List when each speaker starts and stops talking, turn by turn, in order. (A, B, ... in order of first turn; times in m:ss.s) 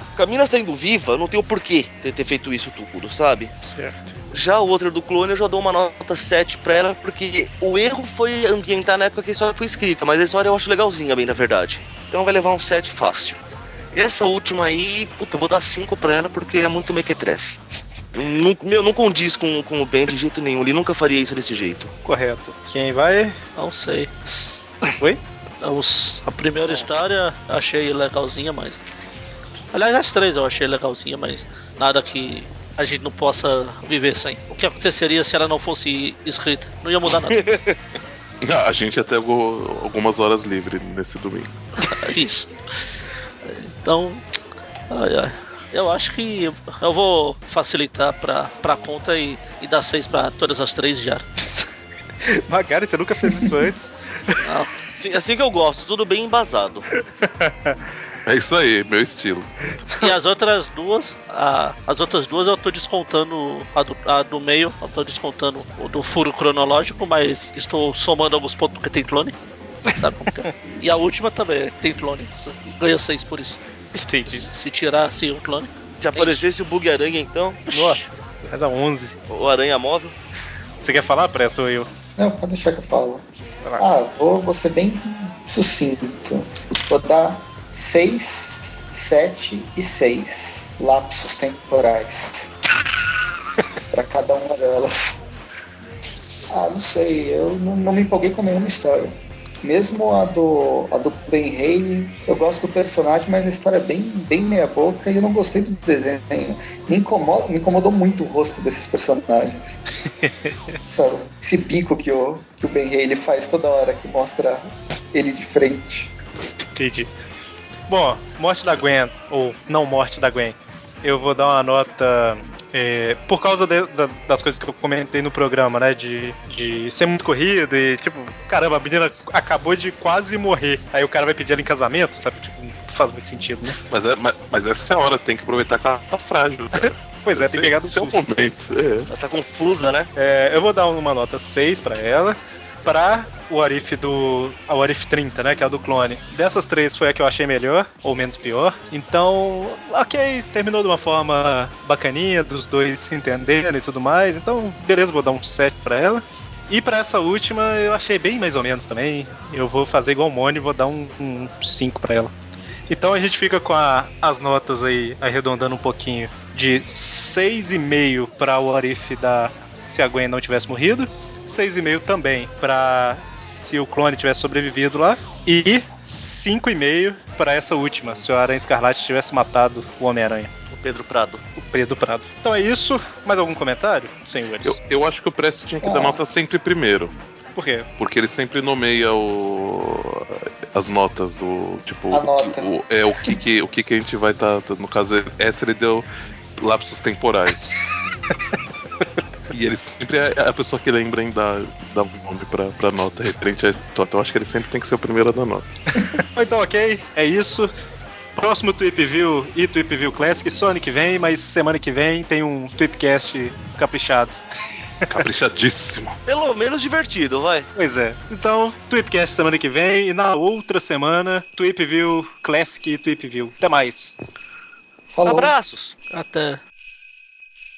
0:00.2-0:03.5 A
0:03.6-0:04.0 B
0:04.3-0:13.4 A
0:13.9-0:17.6 A
0:18.1-0:21.9 A
0:22.0-0:23.4 B
0:23.6-0:24.9 C
0:25.6-0:28.8 C
0:29.7-0:37.4 C
0:37.3-0:37.8 A
0:38.4-0:41.6 D
0:41.8-0:42.5 C
0:43.4-0:44.2 C
0:44.9-0:51.2 C
0:51.4-0:51.7 B
0:52.2-0:54.3 B
0:53.3-0:53.6 E
0:54.4-0:54.7 C
0:54.9-0:56.8 A
0:57.2-0:57.8 B
0:58.2-0:59.5 D
1:00.0-1:09.3 C
1:09.9-1:13.6 C
1:09.9-1:10.5 B
1:13.9-1:14.4 B
1:14.2-1:16.4 C
1:15.9-1:17.6 A
1:17.7-1:19.2 B
1:19.3-1:20.1 A
1:20.8-1:21.9 B
1:22.2-1:23.2 E
1:23.8-1:32.5 E
1:33.9-1:35.2 E
1:36.5-1:49.7 E
1:50.2-1:50.7 B
1:50.9-1:56.1 E
1:56.7-1:57.1 B
1:57.9-2:13.8 B
2:13.9-2:19.1 D
2:16.8-2:18.5 B
2:19.1-2:20.1 A
2:20.2-2:42.3 B
2:42.9-3:00.5 B
3:00.7-3:01.4 A
3:01.6-3:04.8 B
3:04.6-3:07.1 D
3:05.8-3:06.2 E
3:07.6-3:07.9 B
3:08.0-3:16.0 D
3:12.1-3:12.7 E
3:16.6-3:17.7 D
3:19.5-3:25.6 D
3:26.2-3:27.7 B
3:28.4-3:34.4 B
3:35.1-3:36.2 D
3:36.2-3:37.7 A
3:37.8-3:44.3 B
3:45.1-3:45.5 E
3:45.2-3:46.0 A
3:46.1-3:46.6 C